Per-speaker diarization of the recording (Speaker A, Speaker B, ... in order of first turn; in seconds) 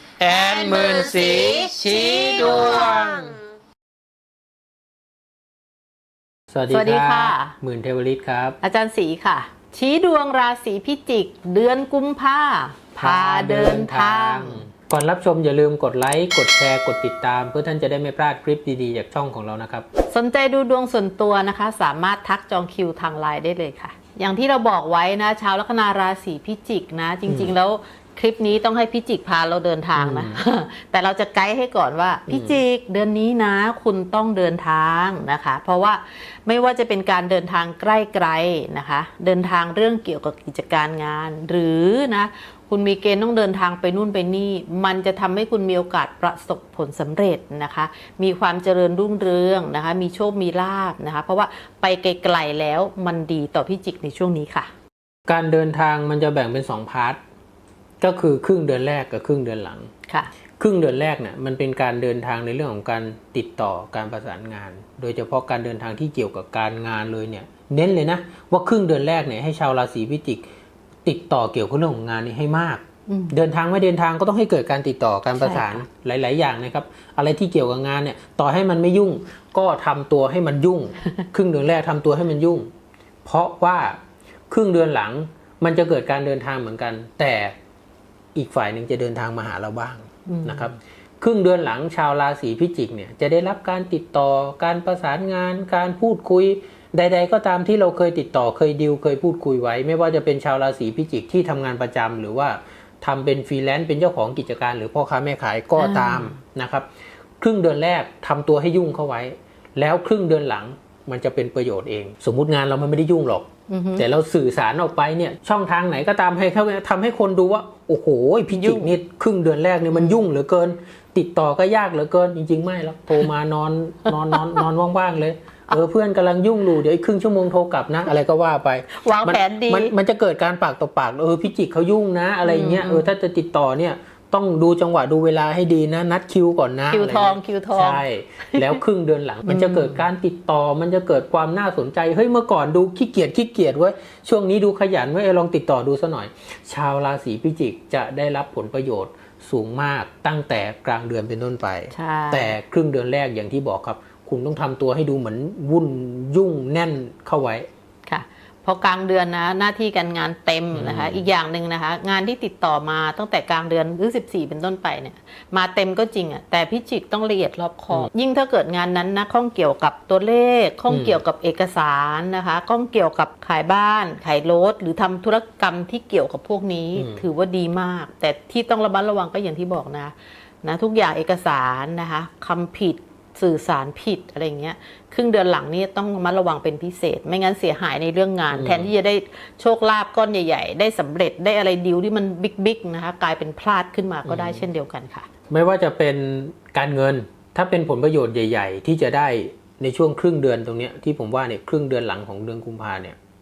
Speaker A: 0.2-3.4
Speaker B: 2.6-2.9, 6.5-8.6, 13.0-19.9, 27.3-27.5, 29.9-30.4, 32.3-32.6, 55.3-57.2, 58.0-59.9, 60.6-70.4, 71.0-82.7, 83.2-84.0, 84.5-87.5, 88.3-106.9, 107.4-157.7, 160.7-161.2, 170.9-171.2, 176.9-177.2, 188.5-188.9, 194.2-194.6, 195.5-203.2
Speaker C: 6.7-7.5, 8.6-14.6, 20.1-54.7, 73.1-73.3, 75.4-75.8, 90.2-90.8, 105.8-106.4, 113.7-114.0, 118.5-118.9, 119.9-120.2, 124.1-124.6, 128.9-129.9, 132.4-133.1, 136.9-138.7, 139.4-140.0, 151.9-152.6, 158.1-195.3